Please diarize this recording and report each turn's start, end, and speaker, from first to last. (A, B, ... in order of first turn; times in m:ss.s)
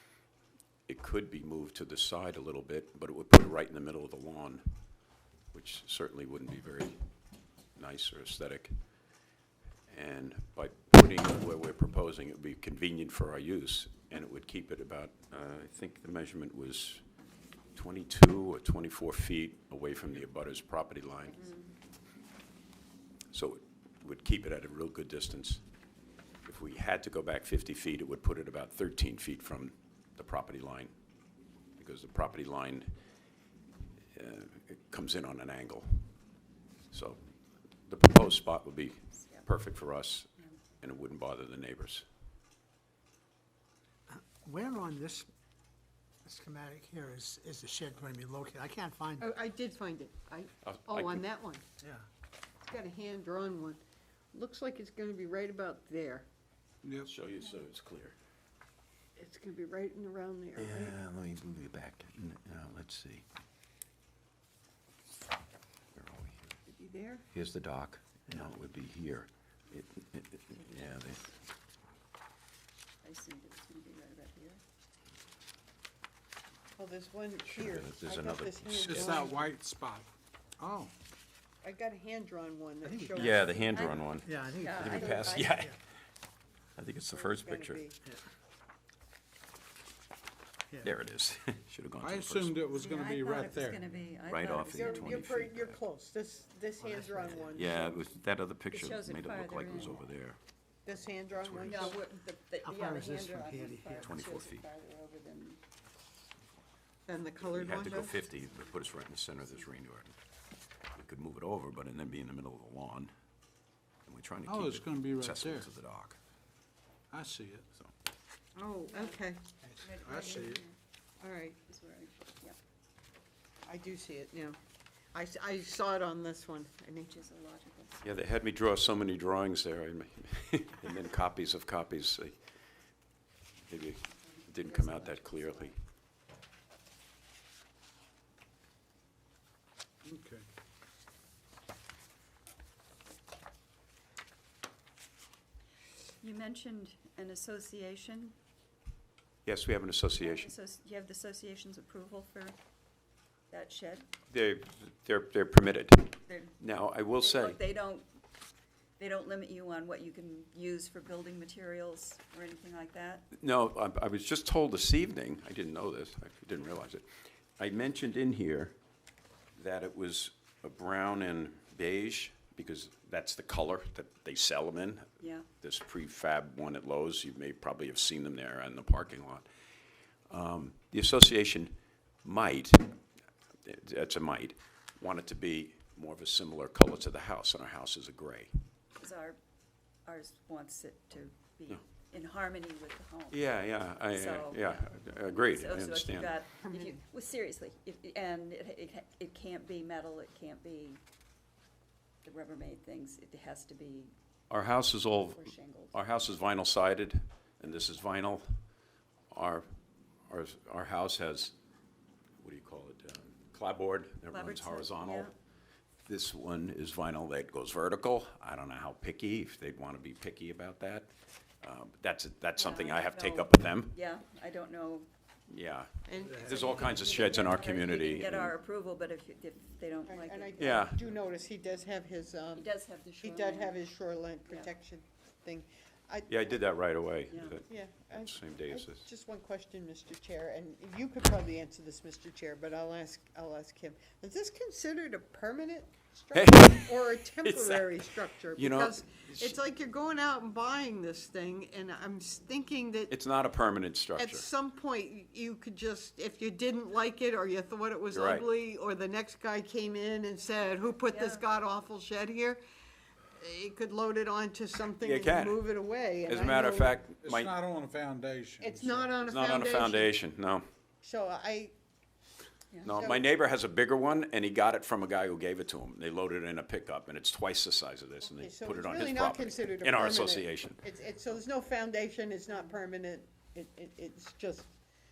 0:00.9-0:04.6 A
0:05.5-0:07.0 A
0:07.8-0:08.7 A
0:09.9-0:17.0 A
0:17.7-0:21.5 A
0:21.4-0:21.6 B
0:23.3-0:25.6 A
0:26.4-0:30.9 A
0:31.8-0:32.9 A
0:34.1-0:36.1 A
0:36.9-0:37.3 A
0:37.9-0:40.3 A
0:40.8-0:42.0 A
0:44.1-0:45.3 C
0:46.2-0:49.2 C
0:49.2-0:51.6 D
0:50.6-0:51.2 A
0:52.6-0:53.8 D
0:54.3-0:56.2 D
0:56.8-0:57.1 E
0:57.0-0:58.1 A
0:59.2-1:01.0 D
1:00.6-1:03.2 A
1:05.9-1:06.6 A
1:06.7-1:07.2 D
1:07.3-1:11.3 A
1:13.0-1:14.6 B
1:16.8-1:19.4 D
1:17.5-1:19.2 A
1:18.7-1:20.9 E
1:21.6-1:23.8 D
1:22.9-1:23.3 C
1:23.1-1:25.8 A
1:23.7-1:25.4 B
1:24.2-1:25.7 C
1:25.0-1:25.5 D
1:26.8-1:27.8 A
1:27.1-1:28.0 D
1:30.8-1:32.6 A
1:32.0-1:33.8 E
1:32.8-1:35.3 B
1:34.3-1:35.8 A
1:34.7-1:37.9 D
1:36.8-1:37.6 C
1:37.5-1:40.4 A
1:38.7-1:40.0 B
1:40.8-1:42.0 D
1:41.6-1:45.6 B
1:42.6-1:44.1 C
1:44.0-1:44.7 A
1:47.1-1:48.2 D
1:47.4-1:50.1 A
1:50.9-1:53.1 A
1:54.0-1:56.2 A
1:54.4-1:55.7 E
1:57.1-1:57.7 E
1:58.6-1:59.4 D
1:58.9-1:59.2 B
1:59.8-2:00.7 B
1:59.8-2:00.6 E
2:00.0-2:00.5 D
2:01.2-2:01.6 D
2:01.7-2:02.6 B
2:03.7-2:04.6 D
2:05.1-2:07.1 D
2:07.1-2:08.1 B
2:08.0-2:12.3 A
2:13.7-2:15.8 A
2:14.2-2:15.7 B
2:20.0-2:20.5 E
2:26.2-2:28.3 B
2:29.4-2:30.5 A
2:30.2-2:32.6 B
2:33.5-2:34.1 B
2:34.3-2:37.6 A
2:36.2-2:36.6 B
2:37.2-2:38.1 B
2:39.0-2:43.3 B
2:43.3-2:47.1 A
2:47.6-2:48.8 A
2:49.6-2:59.5 A
2:55.2-2:55.5 B
3:00.3-3:03.0 A
3:03.6-3:08.5 A
3:09.0-3:09.4 B
3:10.1-3:13.5 B
3:13.3-3:16.4 A
3:14.0-3:21.0 B
3:16.6-3:17.0 D
3:22.2-3:24.1 B
3:24.5-3:28.4 A
3:25.3-3:26.0 B
3:29.3-3:29.7 A
3:30.3-3:31.5 A
3:32.4-3:35.3 A
3:34.3-3:35.3 B
3:36.1-3:43.9 A
3:42.6-3:45.1 B
3:45.5-3:48.5 A
3:46.1-3:46.9 D
3:46.5-3:50.8 B
3:50.1-3:56.3 D
3:50.6-3:51.0 A
3:52.6-3:53.8 B
3:56.3-3:59.1 A
3:57.3-3:57.6 B
3:57.7-4:13.1 D
4:06.3-4:07.9 A
4:08.5-4:09.6 A
4:13.1-4:14.4 A
4:14.2-4:22.6 D
4:18.1-4:18.5 A
4:21.1-4:21.4 B
4:23.4-4:27.0 D
4:25.0-4:25.6 A
4:26.3-4:27.5 A
4:27.2-4:29.1 E
4:28.6-4:30.1 D
4:29.2-4:30.6 A
4:31.0-4:31.7 D
4:32.8-4:40.8 A
4:32.9-4:33.3 D
4:38.2-4:44.7 D